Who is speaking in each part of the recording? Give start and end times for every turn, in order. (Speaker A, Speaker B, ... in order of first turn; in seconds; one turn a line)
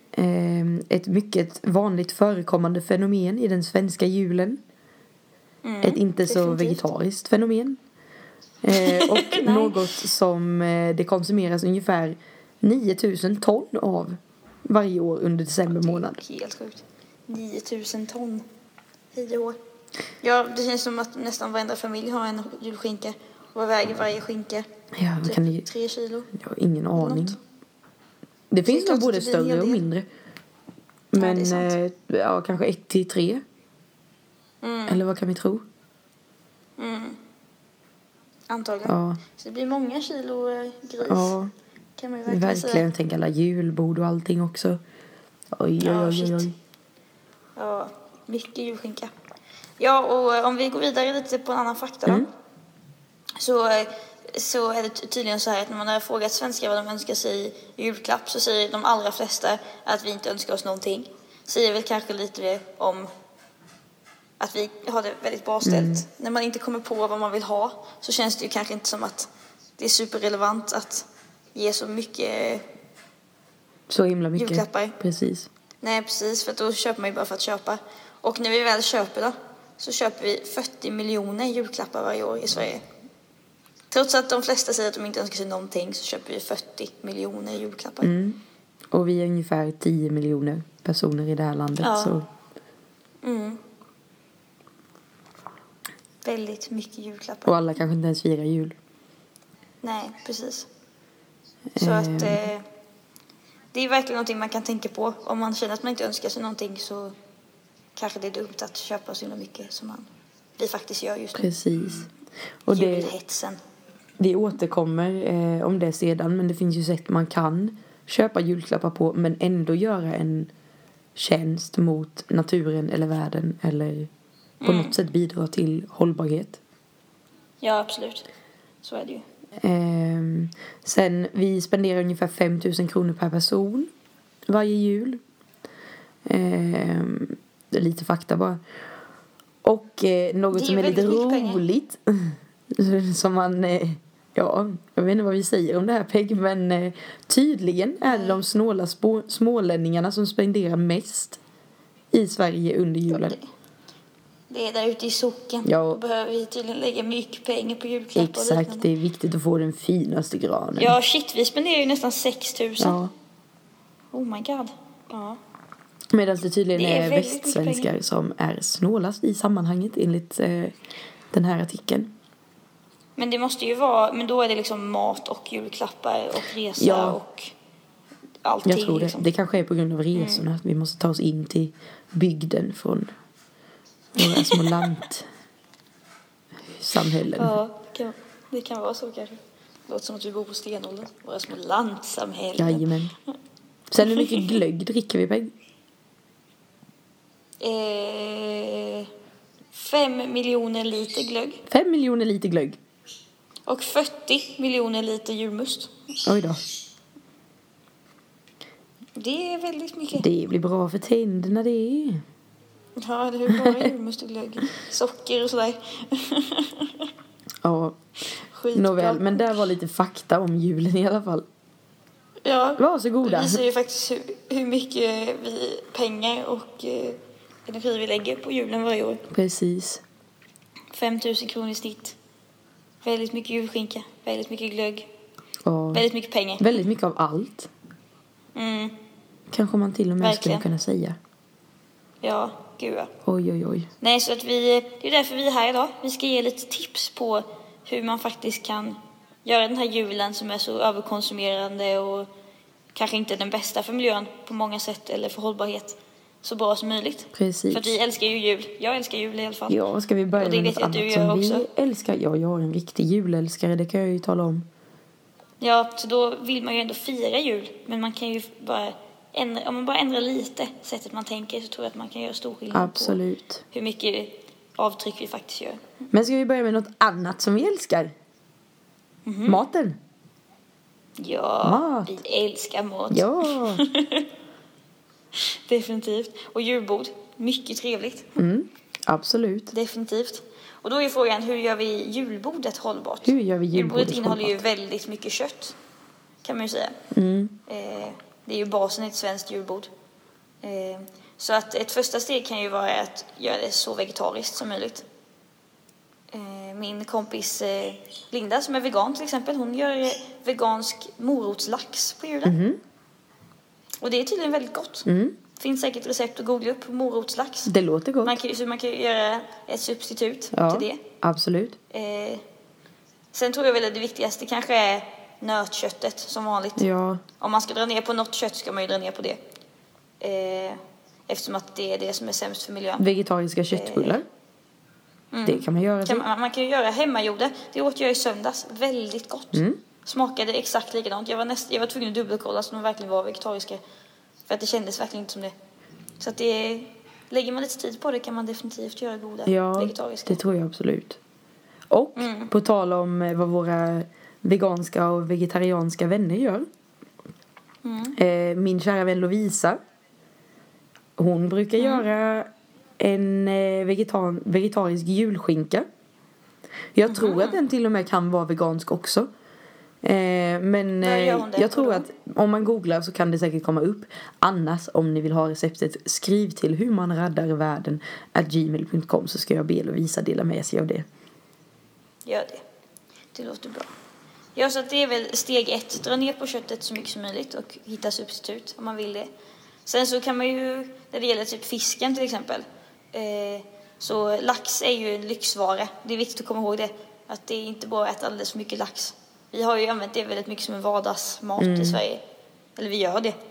Speaker A: 0.1-4.6
Speaker B: 5.6-6.8
Speaker A: 5.8-7.8
Speaker A: 8.6-16.2
Speaker B: 8.7-9.8
Speaker B: 15.7-18.4
Speaker B: 19.1-19.6
Speaker B: 20.2-24.7
Speaker A: 25.0-25.7
Speaker B: 25.2-26.3
Speaker A: 26.3-27.4
Speaker B: 27.0-27.4
Speaker A: 28.5-30.1
Speaker B: 28.6-29.8
Speaker A: 31.1-33.4
Speaker B: 31.1-31.7
Speaker B: 34.6-35.0
Speaker A: 34.9-35.6
Speaker B: 36.8-37.2
Speaker B: 38.5-41.3
Speaker A: 38.9-39.2
Speaker A: 41.1-41.5
Speaker B: 42.0-42.9
Speaker A: 42.3-44.8
Speaker A: 45.5-46.5
Speaker B: 45.8-46.5
Speaker B: 47.6-49.1
Speaker B: 49.8-52.3
Speaker B: 53.4-63.1
Speaker B: 64.4-72.6
Speaker A: 65.6-66.0
Speaker A: 73.9-75.5
Speaker B: 74.3-75.0
Speaker B: 75.8-82.8
Speaker B: 83.9-88.1
Speaker A: 88.0-88.4
Speaker A: 88.9-92.3
Speaker B: 91.8-92.2
Speaker B: 93.2-93.6
Speaker B: 96.2-97.5
Speaker A: 97.5-98.8
Speaker B: 99.8-100.7
Speaker A: 101.8-102.5
Speaker B: 101.8-102.7
Speaker B: 103.7-107.1
Speaker B: 108.0-111.5
Speaker A: 111.3-112.1
Speaker A: 112.7-113.1
Speaker B: 112.7-113.6
Speaker A: 114.2-120.5
Speaker A: 121.2-124.1
Speaker B: 124.6-125.0
Speaker A: 124.6-126.6
Speaker B: 127.6-128.3
Speaker B: 128.8-129.2
Speaker A: 129.6-133.9
Speaker A: 134.5-135.2
Speaker A: 136.3-138.6
Speaker A: 139.6-151.4
Speaker B: 140.5-141.6
Speaker B: 148.0-148.4
Speaker A: 152.1-153.4
Speaker B: 153.1-153.4
Speaker B: 154.5-158.9
Speaker A: 155.7-156.0
Speaker A: 158.2-161.0
Speaker B: 160.8-163.0
Speaker A: 162.8-163.1
Speaker B: 164.1-165.4
Speaker A: 166.1-170.8
Speaker B: 166.7-167.9
Speaker A: 171.3-172.1
Speaker B: 173.2-177.5
Speaker A: 176.8-177.2
Speaker B: 178.4-179.3
Speaker A: 178.7-183.1
Speaker B: 180.2-180.4
Speaker A: 184.2-185.3
Speaker B: 184.2-184.8
Speaker A: 186.8-187.6
Speaker B: 187.3-192.9
Speaker A: 192.6-193.1
Speaker A: 193.9-195.5
Speaker B: 194.0-194.6
Speaker B: 197.6-199.1
Speaker B: 199.7-201.7
Speaker A: 201.7-202.8
Speaker B: 203.7-205.9
Speaker A: 206.2-206.6
Speaker B: 209.2-210.3
Speaker A: 210.2-212.2
Speaker B: 213.0-217.1
Speaker A: 213.5-213.9
Speaker A: 217.6-218.0
Speaker B: 218.5-219.6
Speaker A: 218.7-221.5
Speaker B: 222.4-229.3
Speaker A: 222.8-223.6
Speaker A: 229.3-230.0
Speaker B: 230.9-232.2
Speaker B: 233.0-235.1
Speaker A: 235.7-236.1
Speaker B: 235.9-236.8
Speaker A: 236.6-237.7
Speaker B: 238.6-238.9
Speaker A: 239.5-241.2
Speaker B: 240.2-240.7
Speaker B: 242.2-243.1
Speaker A: 243.2-243.9
Speaker B: 244.0-252.3
Speaker B: 252.9-259.8
Speaker A: 257.3-258.0
Speaker A: 259.7-264.7
Speaker B: 260.4-261.7
Speaker B: 265.6-273.2
Speaker A: 272.7-273.6
Speaker B: 273.7-275.8
Speaker A: 276.1-278.1
Speaker B: 279.3-279.6
Speaker A: 279.5-280.0
Speaker B: 281.2-284.3
Speaker A: 281.6-282.2
Speaker A: 283.1-283.8
Speaker B: 285.4-288.3
Speaker A: 288.4-289.7
Speaker B: 289.7-295.8
Speaker A: 293.2-294.6
Speaker B: 296.4-297.0
Speaker A: 297.1-297.6
Speaker B: 297.7-299.9
Speaker B: 300.6-305.1
Speaker B: 306.3-312.6
Speaker A: 312.4-312.8
Speaker B: 314.0-321.0
Speaker A: 315.1-315.4
Speaker A: 317.7-318.4
Speaker A: 320.5-321.8
Speaker B: 321.9-322.4
Speaker B: 323.3-326.9
Speaker A: 326.8-327.2
Speaker B: 327.4-329.4
Speaker B: 330.2-333.1
Speaker A: 333.0-334.2
Speaker B: 333.7-334.2
Speaker B: 335.3-343.8
Speaker A: 335.5-336.3
Speaker B: 344.5-345.5
Speaker B: 346.2-350.4
Speaker A: 349.5-351.2
Speaker A: 351.9-356.7
Speaker B: 352.2-352.5
Speaker B: 357.8-358.2
Speaker A: 358.2-359.8
Speaker A: 361.2-365.9
Speaker B: 361.8-362.0
Speaker A: 367.0-369.3
Speaker B: 367.1-367.6
Speaker A: 370.0-381.1
Speaker B: 371.0-372.1
Speaker B: 382.3-382.6
Speaker B: 383.3-383.9
Speaker B: 384.6-389.3
Speaker B: 389.9-402.2
Speaker A: 401.6-402.0
Speaker B: 402.8-403.4